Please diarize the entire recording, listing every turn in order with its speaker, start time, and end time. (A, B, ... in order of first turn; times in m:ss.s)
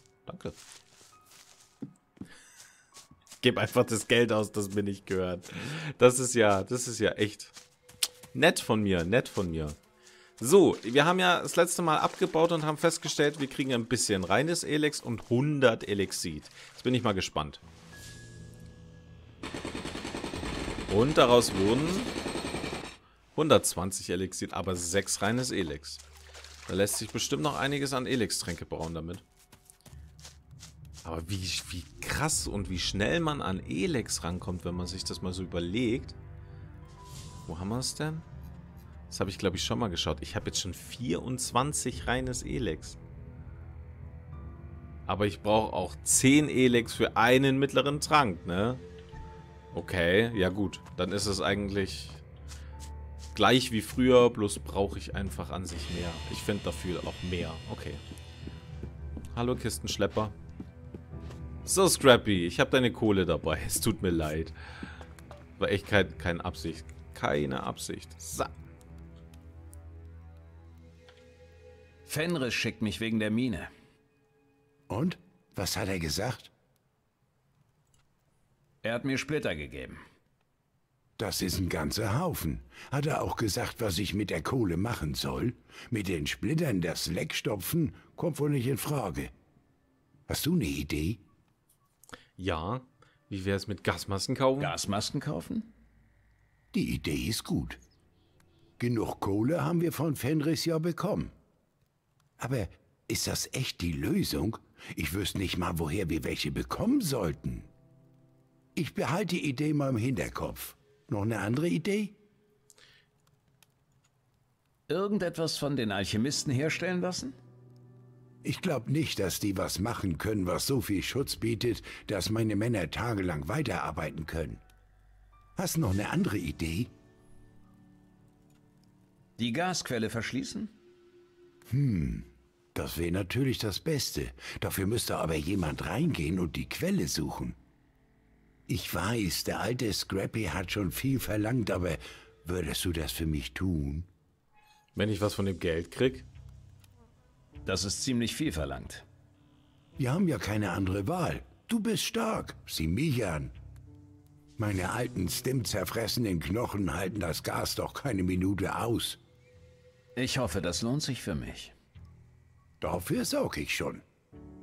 0:00.2-0:00.6 A
0:03.4-0:07.5 A
0:08.3-0:09.8 A
0:10.4-0:17.6 A
0:20.9-0:22.1 A
0:23.3-0:26.0 A
0:26.6-0:29.2 A
0:31.0-0:36.2 A
0:37.5-0:38.2 A
0:39.1-0:43.0 A
0:45.1-0:48.8 A
0:49.7-0:52.2 A
0:53.3-0:58.0 A
0:59.3-1:00.3 A
1:01.6-1:04.6 A
1:05.6-1:08.5 A
1:12.1-1:13.7 B
1:14.9-1:16.5 C
1:18.8-1:20.0 B
1:21.2-1:29.3 C
1:30.3-1:31.2 C
1:32.4-1:34.7 A
1:34.6-1:35.7 B
1:36.7-1:37.8 C
1:38.8-1:41.3 C
1:42.4-1:47.7 C
1:48.8-1:52.2 C
1:54.9-1:57.4 B
1:58.4-2:04.6 C
2:05.6-2:06.9 C
2:09.4-2:10.7 B
2:11.7-2:17.6 C
2:18.7-2:24.1 C
2:24.9-2:26.2 A
2:27.6-2:29.0 B
2:30.0-2:33.5 C
2:34.6-2:39.2 C
2:40.2-2:41.7 B
2:42.8-2:44.0 C